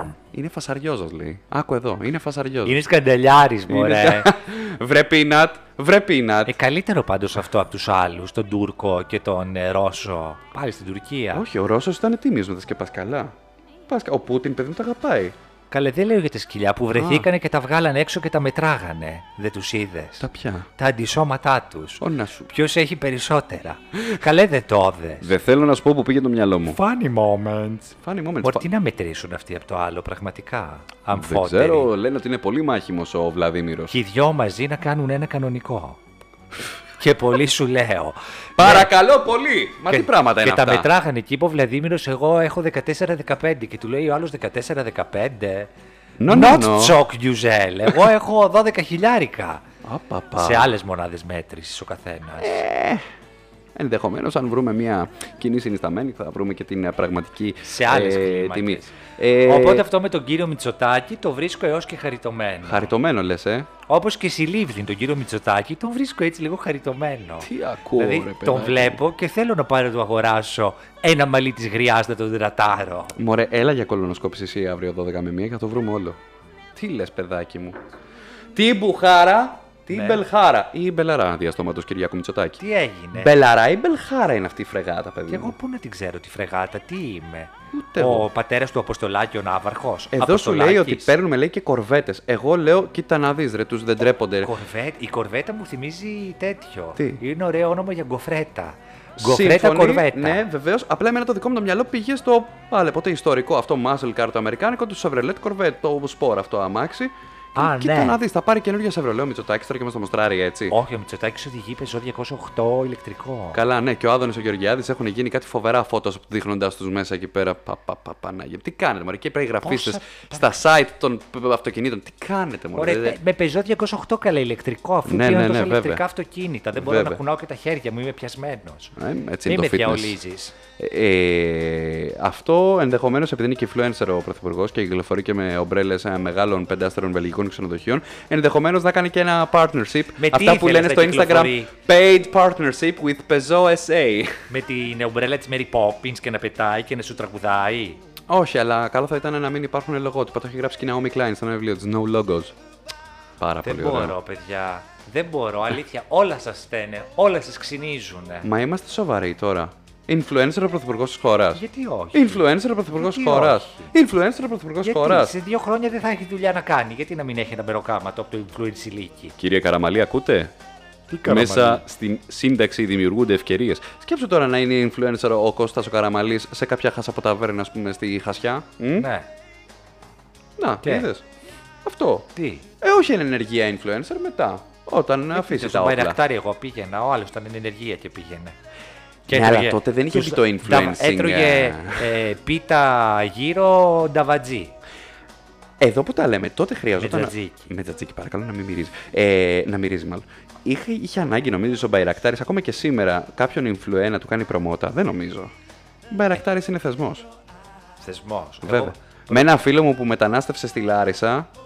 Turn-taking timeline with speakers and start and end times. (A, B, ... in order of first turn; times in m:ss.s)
0:00.3-0:02.8 A
0:02.6-0:04.3 B
0:03.7-0:06.6 A
0:06.4-0:11.4 B
0:11.3-0:13.3 A
0:13.9-0:15.4 A
0:15.7-0:20.2 B
0:16.9-0:17.3 A
0:20.2-0:20.7 A
0:20.8-0:25.3 B
0:22.0-0:22.5 A
0:25.2-0:26.8 A
0:26.6-0:31.9 B
0:28.0-0:28.7 A
0:31.1-0:33.9 A
0:33.9-0:36.0 B
0:37.0-0:38.9 B
0:38.6-0:40.9 A
0:39.9-0:45.7 B
0:46.2-0:47.0 A
0:46.3-0:49.6 B
0:49.8-0:50.7 A
0:50.4-0:52.6 B
0:52.4-0:53.0 A
0:53.7-0:59.9 A
0:57.6-1:02.9 B
1:02.6-1:03.7 A
1:03.9-1:13.2 B
1:07.4-1:09.0 A
1:13.2-1:16.2 A
1:16.8-1:17.8 A
1:18.5-1:22.6 A
1:19.9-1:20.2 B
1:22.6-1:23.3 B
1:23.1-1:25.6 A
1:25.3-1:31.1 B
1:27.7-1:28.3 A
1:30.1-1:34.5 A
1:34.4-1:40.4 B
1:37.0-1:37.2 A
1:39.2-1:50.8 A
1:47.6-1:48.2 B
1:50.7-1:53.6 B
1:53.5-2:03.2 A
1:59.6-2:00.5 B
2:02.8-2:08.9 B
2:05.0-2:06.0 A
2:06.7-2:07.2 A
2:09.0-2:10.2 A
2:09.5-2:10.5 B
2:10.8-2:24.5 A
2:20.2-2:21.7 B
2:24.5-2:28.0 B
2:28.3-2:32.5 A
2:33.4-2:34.2 A
2:33.6-2:38.5 B
2:38.4-2:45.4 A
2:41.5-2:43.9 B
2:44.8-2:49.4 B
2:49.4-2:50.5 A
2:51.1-2:51.8 B
2:51.2-2:59.1 A
2:59.0-2:59.3 B
3:00.6-3:01.2 A
3:00.8-3:01.1 B
3:01.8-3:02.3 A
3:02.4-3:02.6 B
3:02.8-3:06.2 A
3:05.3-3:08.6 B
3:09.3-3:12.1 A
3:09.3-3:14.7 B
3:15.8-3:25.5 A
3:17.0-3:17.7 B
3:26.1-3:27.3 A
3:28.0-3:29.5 B
3:28.6-3:31.5 A